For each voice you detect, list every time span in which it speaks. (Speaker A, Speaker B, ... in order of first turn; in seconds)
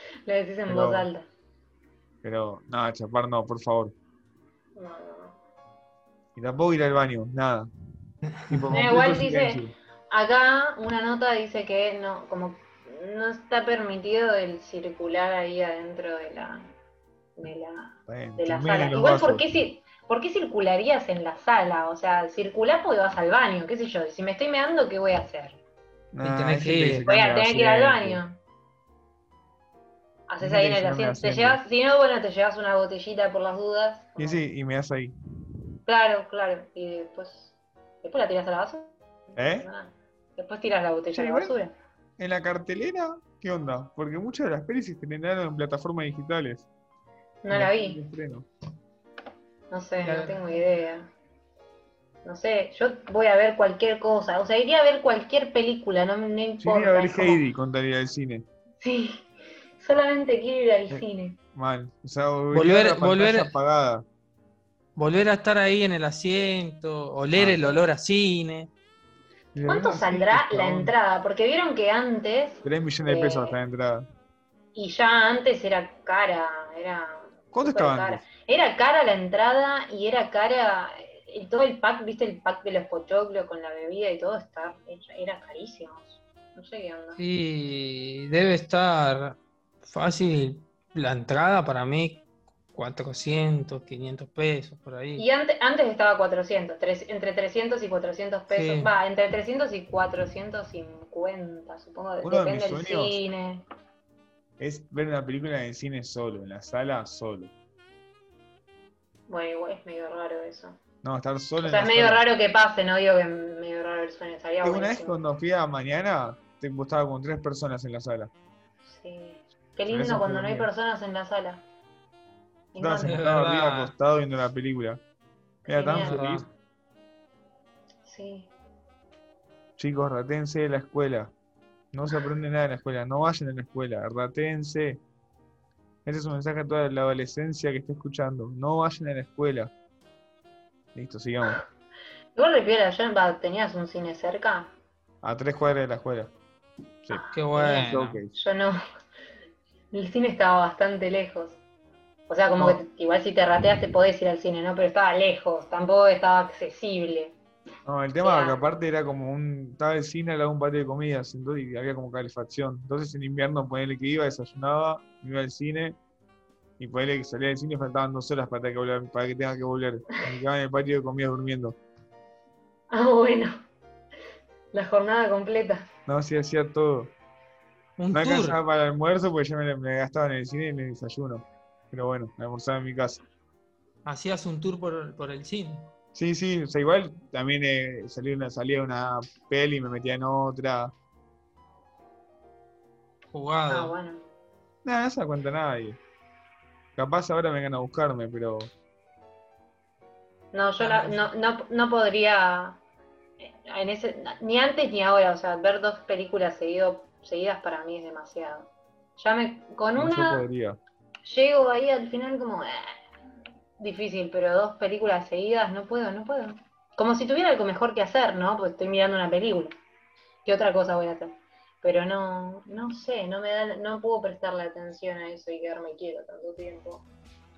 Speaker A: 0.3-1.3, 4.8-5.4, 8.7-16.7, 17.4-25.6, 27.1-28.4, 30.3-34.5, 35.9-41.8, 47.4-48.0, 49.7-51.1, 52.2-57.4, 58.8-59.3, 59.8-61.4, 69.7-73.6, 74.8-87.2, 95.2-103.6, 109.3-110.8, 111.6-115.2, 118.9-121.6, 122.7-123.2, 125.6-126.2, 128.1-128.5, 142.4-144.7, 147.1-148.8, 149.9-151.6, 152.3-157.3, 158.2-158.7, 172.9-173.6, 174.7-175.9, 193.7-194.2, 200.5-202.8, 203.4-210.4, 211.2-213.0, 213.8-219.8, 220.4-227.1
Speaker B: 0.7-1.1, 2.2-3.9, 6.3-9.7, 18.1-19.4, 26.1-28.2, 30.4-31.6, 34.2-35.1, 39.4-39.7, 41.1-41.5, 42.2-46.7, 47.5-48.5, 56.6-58.5, 60.9-64.1, 67.3-67.6, 69.5-70.9, 72.6-74.1, 77.5-78.2, 102.2-103.2, 104.6-107.5, 111.0-112.2, 114.6-118.3, 119.9-120.7, 122.8-125.0, 125.7-126.5, 129.8-131.3, 131.9-135.0, 136.1-139.7, 140.9-141.6, 145.2-146.3, 147.0-148.3, 157.8-166.0, 166.8-171.8, 176.1-177.1, 178.1-183.2, 186.1-190.9, 194.8-196.0, 197.0-198.7, 210.0-210.8
Speaker C: 26.2-27.1, 50.0-50.4, 62.5-63.5, 65.0-68.7, 87.2-95.2, 98.5-98.9, 123.0-123.9, 125.9-126.5, 147.3-148.2, 178.0-178.6, 184.1-185.9, 193.3-193.9, 200.8-201.3